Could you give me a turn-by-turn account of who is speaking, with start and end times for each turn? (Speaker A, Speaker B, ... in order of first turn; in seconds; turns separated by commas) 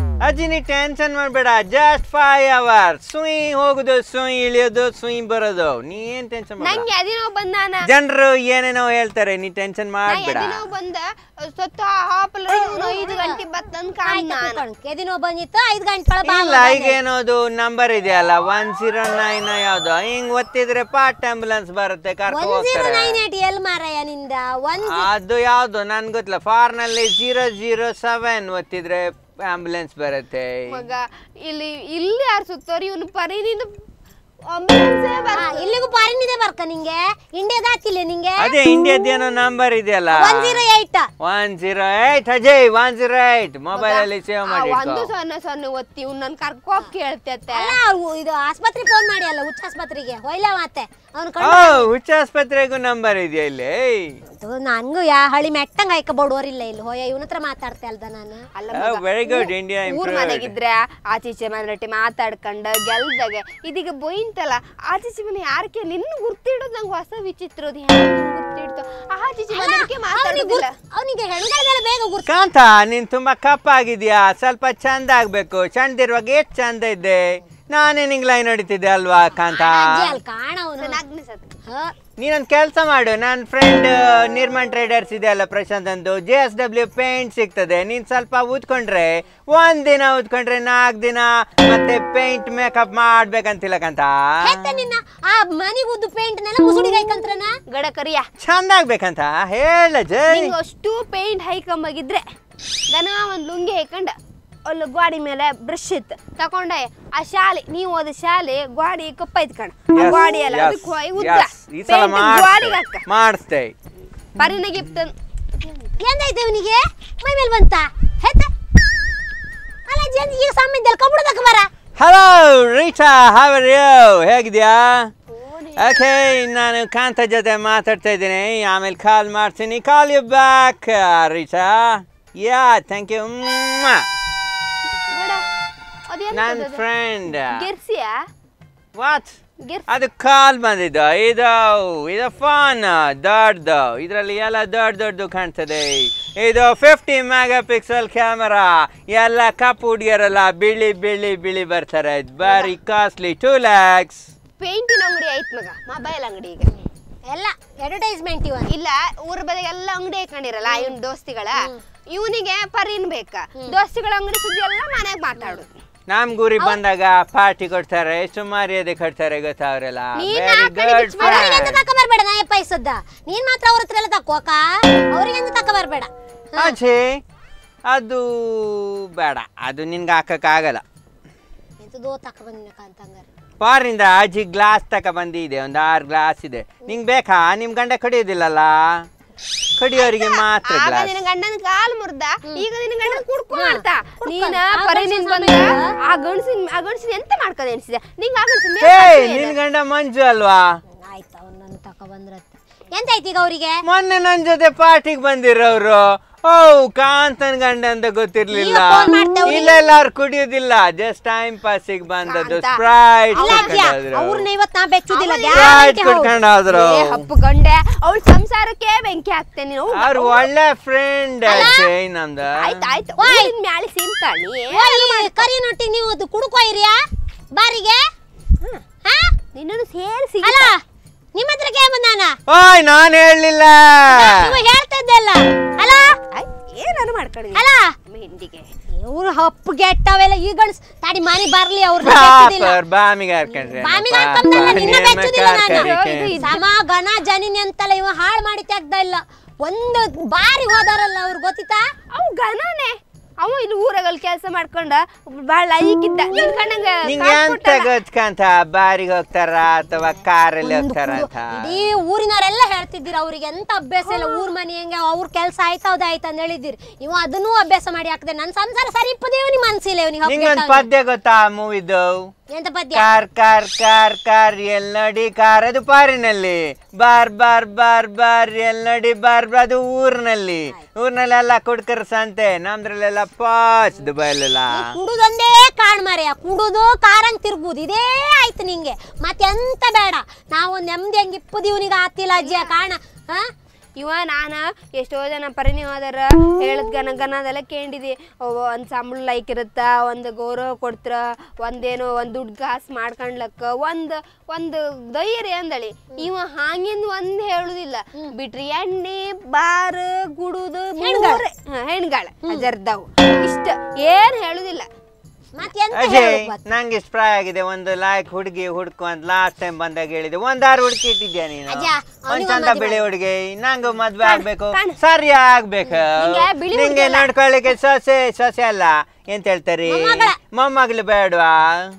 Speaker A: 0.2-6.9, Speaker B: 6.6-7.9, Speaker A: 7.8-10.7, Speaker B: 10.1-14.6, Speaker C: 12.5-13.4, Speaker C: 14.1-17.0, Speaker A: 16.2-23.2, Speaker C: 22.3-25.1, Speaker A: 24.9-30.8, Speaker B: 30.7-33.7, Speaker B: 34.5-35.7, Speaker C: 35.3-38.5, Speaker A: 38.4-40.6, Speaker C: 40.2-41.1, Speaker A: 41.2-45.1, Speaker B: 43.8-47.8, Speaker C: 47.5-51.9, Speaker A: 51.4-54.2, Speaker C: 54.4-58.4, Speaker B: 58.6-70.7, Speaker A: 58.7-60.5, Speaker C: 69.5-72.3, Speaker A: 72.3-80.2, Speaker C: 79.5-81.0, Speaker B: 80.8-81.5, Speaker C: 81.7-81.9, Speaker A: 82.2-94.8, Speaker C: 94.4-97.6, Speaker B: 97.7-98.3, Speaker A: 98.4-100.5, Speaker B: 100.3-102.2, Speaker B: 102.9-104.2, Speaker B: 104.7-113.0, Speaker A: 109.9-113.8, Speaker B: 114.4-116.0, Speaker C: 116.0-118.5, Speaker C: 119.9-121.7, Speaker A: 122.0-125.1, Speaker B: 125.3-126.1, Speaker A: 125.8-134.1, Speaker B: 135.1-135.5, Speaker B: 136.1-136.8, Speaker A: 136.3-137.6, Speaker B: 137.4-138.2, Speaker A: 139.0-154.3, Speaker B: 139.6-139.9, Speaker B: 154.6-156.7, Speaker C: 156.7-158.7, Speaker B: 158.7-165.7, Speaker C: 160.7-160.9, Speaker A: 166.1-171.8, Speaker B: 170.2-171.7, Speaker C: 171.2-176.8, Speaker A: 176.6-177.2, Speaker A: 177.9-180.8, Speaker C: 181.8-183.3, Speaker A: 183.6-189.1, Speaker A: 189.8-191.2, Speaker B: 190.0-199.6, Speaker C: 192.5-195.9, Speaker A: 198.8-200.6, Speaker C: 201.0-203.8, Speaker A: 203.8-214.4, Speaker C: 208.5-209.8, Speaker B: 212.3-212.8, Speaker C: 213.4-216.3, Speaker B: 213.4-213.8, Speaker B: 215.1-215.8, Speaker A: 215.5-217.3, Speaker B: 216.7-220.5, Speaker A: 219.9-222.8, Speaker B: 221.5-221.8, Speaker C: 221.5-221.9, Speaker B: 222.6-225.5, Speaker C: 223.2-223.5, Speaker C: 224.7-227.0, Speaker C: 227.6-228.0, Speaker C: 229.1-229.3, Speaker B: 229.6-230.7, Speaker C: 230.4-230.8, Speaker C: 231.4-232.4, Speaker A: 232.5-234.6, Speaker C: 234.1-236.2, Speaker B: 236.3-238.7, Speaker C: 237.5-237.9, Speaker C: 238.9-242.8, Speaker A: 242.0-246.4, Speaker C: 243.5-251.9, Speaker B: 245.7-246.6, Speaker B: 252.1-257.9, Speaker A: 257.1-261.8, Speaker C: 260.6-270.9, Speaker B: 264.1-264.4, Speaker A: 270.2-272.3, Speaker C: 272.5-273.1, Speaker A: 272.9-285.0, Speaker C: 284.7-293.5, Speaker B: 292.4-292.7, Speaker B: 294.0-314.9, Speaker C: 311.0-311.4, Speaker C: 315.6-316.7, Speaker A: 315.9-331.9, Speaker C: 321.7-323.0, Speaker B: 324.2-325.0, Speaker B: 326.1-327.3, Speaker C: 329.9-330.4